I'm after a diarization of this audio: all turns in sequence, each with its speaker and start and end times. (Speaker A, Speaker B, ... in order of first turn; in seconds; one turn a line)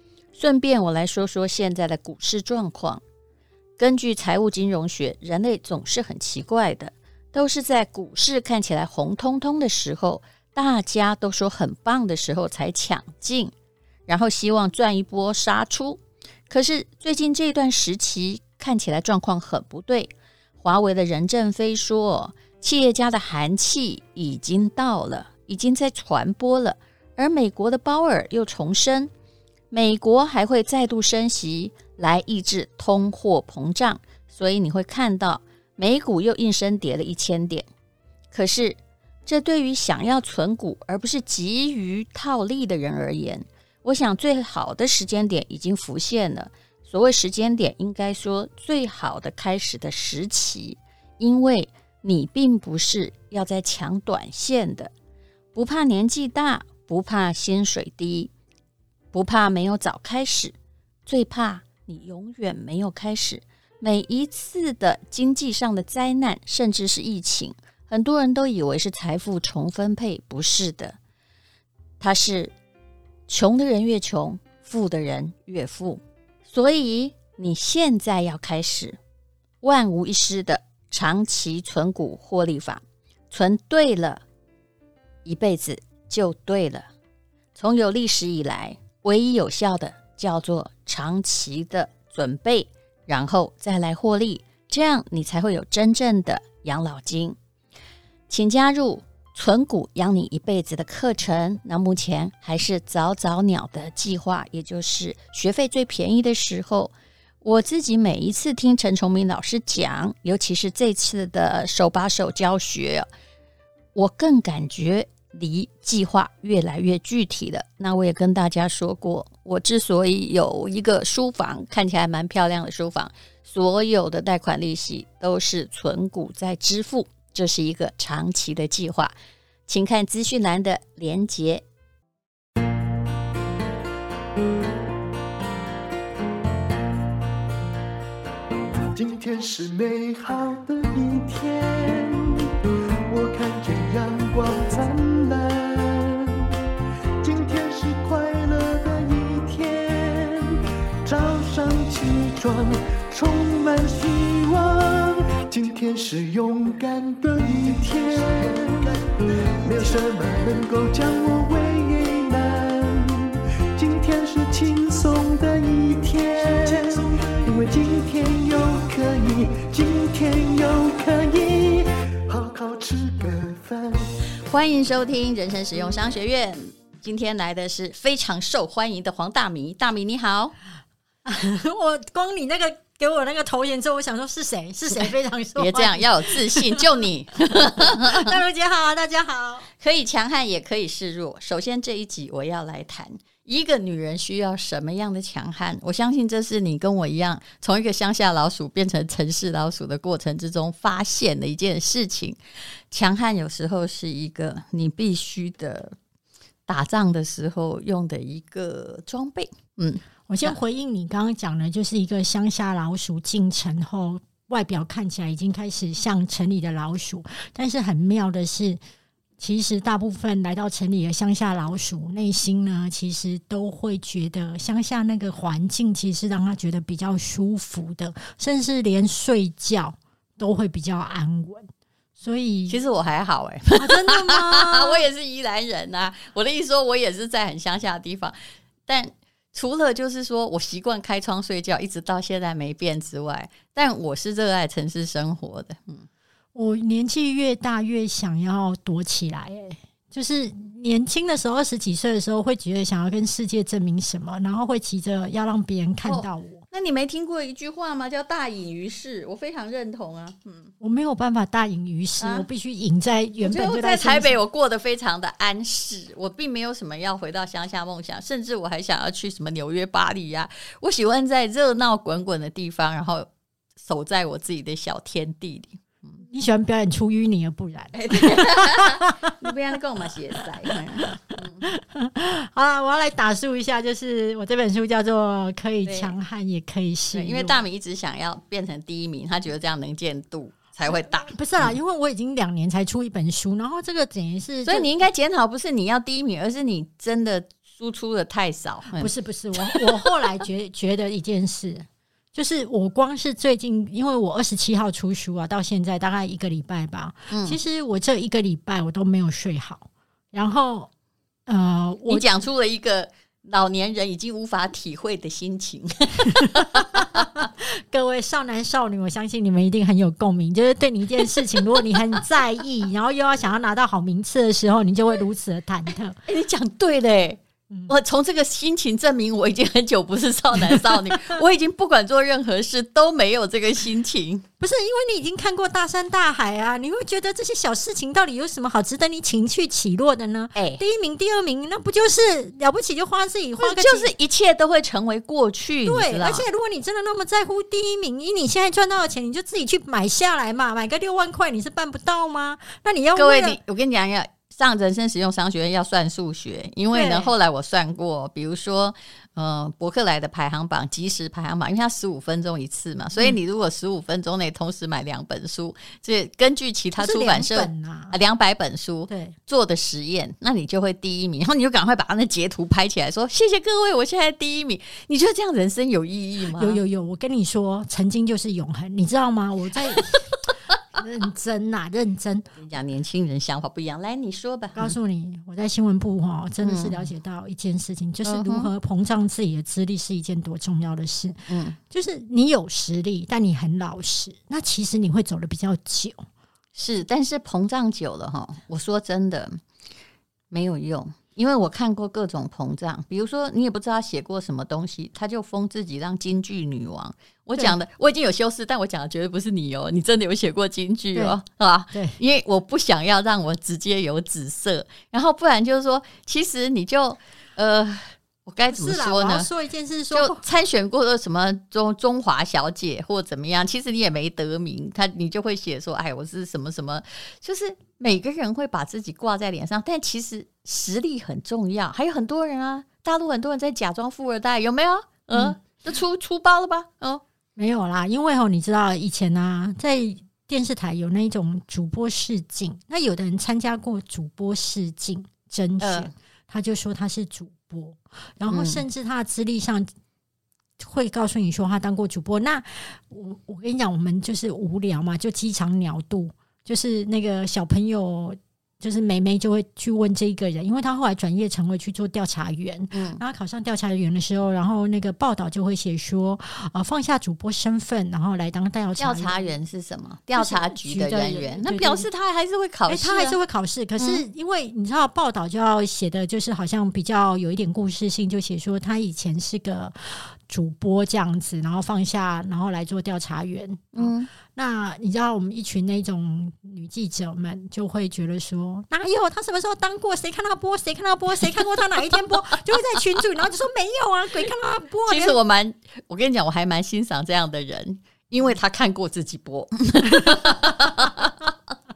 Speaker A: 0.3-3.0
Speaker A: 3.8-13.5
Speaker A: 14.1-29.1
Speaker A: 29.7-37.7
Speaker A: 38.3-54.9
Speaker A: 55.5-58.3
Speaker A: 59.1-60.5
Speaker A: 61.0-71.0
Speaker A: 72.0-72.5
Speaker A: 73.3-79.0
Speaker A: 79.6-84.2
Speaker A: 85.2-86.9
Speaker A: 87.5-97.4
Speaker A: 98.3-113.1
Speaker A: 113.9-129.1
Speaker A: 129.7-131.6
Speaker B: 138.9-146.5
Speaker B: 147.2-174.1
Speaker A: 174.5-180.5
Speaker C: 181.2-186.8
Speaker A: 185.6-188.4
Speaker C: 187.7-189.7
Speaker A: 189.8-202.4
Speaker A: 202.9-205.9
Speaker A: 206.7-210.6
Speaker C: 210.3-218.8
Speaker C: 219.4-232.8
Speaker A: 232.7-246.1
Speaker C: 233.8-235.0
Speaker C: 246.5-256.6
Speaker A: 256.0-260.7
Speaker C: 260.8-264.4
Speaker A: 262.2-262.5
Speaker A: 263.4-275.8
Speaker C: 276.2-279.3
Speaker A: 277.9-281.6
Speaker C: 281.0-287.6
Speaker A: 285.9-286.1
Speaker A: 287.1-291.8
Speaker C: 291.2-294.9
Speaker A: 294.6-299.1
Speaker C: 298.9-310.9
Speaker A: 307.3-307.6
Speaker C: 311.5-312.2
Speaker A: 312.1-317.3
Speaker C: 316.3-326.2
Speaker A: 326.3-334.4
Speaker C: 330.7-331.3
Speaker C: 334.6-344.1
Speaker A: 340.5-340.8
Speaker A: 343.6-346.4
Speaker C: 345.9-353.6
Speaker A: 353.1-376.8
Speaker C: 356.9-357.3
Speaker C: 367.0-368.2
Speaker C: 369.1-369.4
Speaker C: 376.6-380.4
Speaker C: 380.9-382.5
Speaker A: 382.6-384.9
Speaker C: 384.7-391.4
Speaker A: 386.6-387.1
Speaker A: 388.2-388.7
Speaker A: 391.5-391.8
Speaker C: 391.9-396.2
Speaker A: 396.7-399.6
Speaker A: 400.5-419.5
Speaker C: 411.9-412.2
Speaker C: 418.7-420.4
Speaker A: 420.1-437.2
Speaker C: 437.6-449.9
Speaker A: 445.8-446.1
Speaker A: 448.5-448.8
Speaker C: 450.8-469.5
Speaker A: 462.9-463.2
Speaker A: 469.0-473.4
Speaker C: 470.3-472.1
Speaker C: 472.9-495.4
Speaker A: 474.0-474.2
Speaker A: 483.9-484.3
Speaker A: 495.1-501.3
Speaker C: 500.1-500.6